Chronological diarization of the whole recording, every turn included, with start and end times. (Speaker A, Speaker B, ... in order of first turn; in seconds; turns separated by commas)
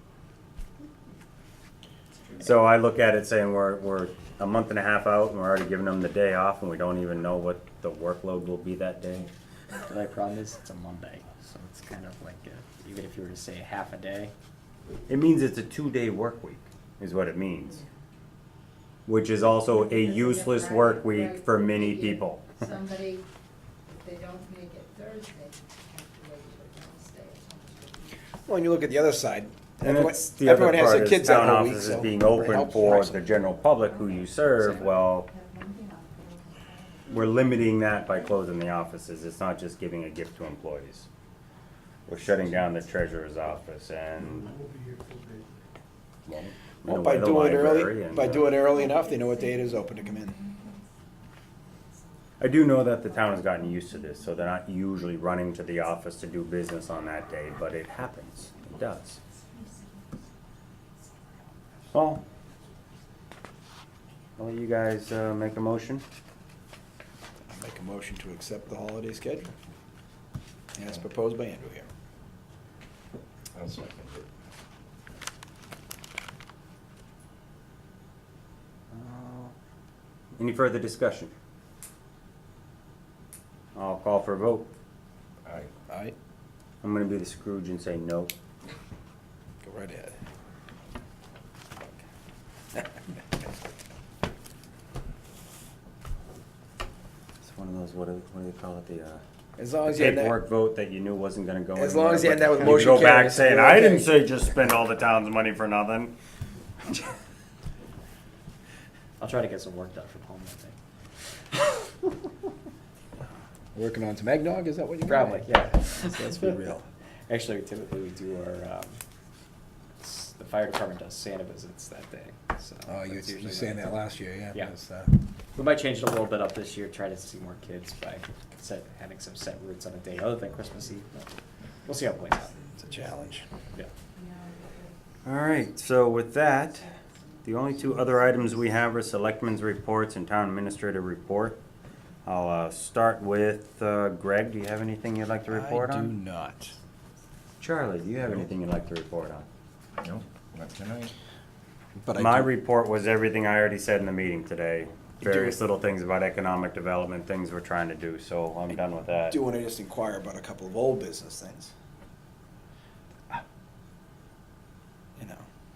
Speaker A: 2.4-9.3, Speaker B: 9.8-14.3, Speaker A: 15.1-17.8, Speaker A: 19.1-22.7, Speaker C: 21.5-21.8, Speaker C: 22.7-23.2, Speaker C: 24.0-28.0, Speaker D: 28.4-33.3, Speaker A: 29.8-35.3, Speaker C: 35.4-37.0, Speaker A: 37.1-41.1, Speaker A: 42.1-44.6, Speaker A: 46.2-48.5, Speaker D: 46.9-50.4, Speaker A: 52.4-59.2, Speaker A: 61.9-62.2, Speaker A: 64.4-66.0, Speaker D: 67.5-69.5, Speaker D: 70.7-71.9, Speaker E: 73.5-74.3, Speaker A: 78.9-79.5, Speaker A: 80.4-81.3, Speaker A: 83.7-84.7, Speaker E: 85.4-85.7, Speaker D: 85.9-86.2, Speaker A: 86.8-88.3, Speaker D: 89.6-90.2, Speaker A: 97.4-99.2, Speaker D: 99.6-100.4, Speaker A: 99.9-106.1, Speaker D: 101.7-104.2, Speaker B: 109.2-110.8, Speaker D: 113.7-116.9, Speaker B: 115.0-116.6, Speaker B: 117.3-119.0, Speaker B: 120.0-124.7, Speaker D: 122.9-125.2, Speaker B: 125.5-131.3, Speaker B: 131.8-132.6, Speaker D: 132.7-133.4, Speaker A: 135.2-141.6, Speaker A: 142.2-146.1, Speaker D: 145.5-146.8, Speaker A: 147.6-149.4, Speaker E: 150.0-151.1, Speaker D: 152.0-152.5, Speaker A: 152.1-159.4, Speaker D: 155.2-155.6, Speaker D: 159.3-161.7, Speaker D: 165.2-165.4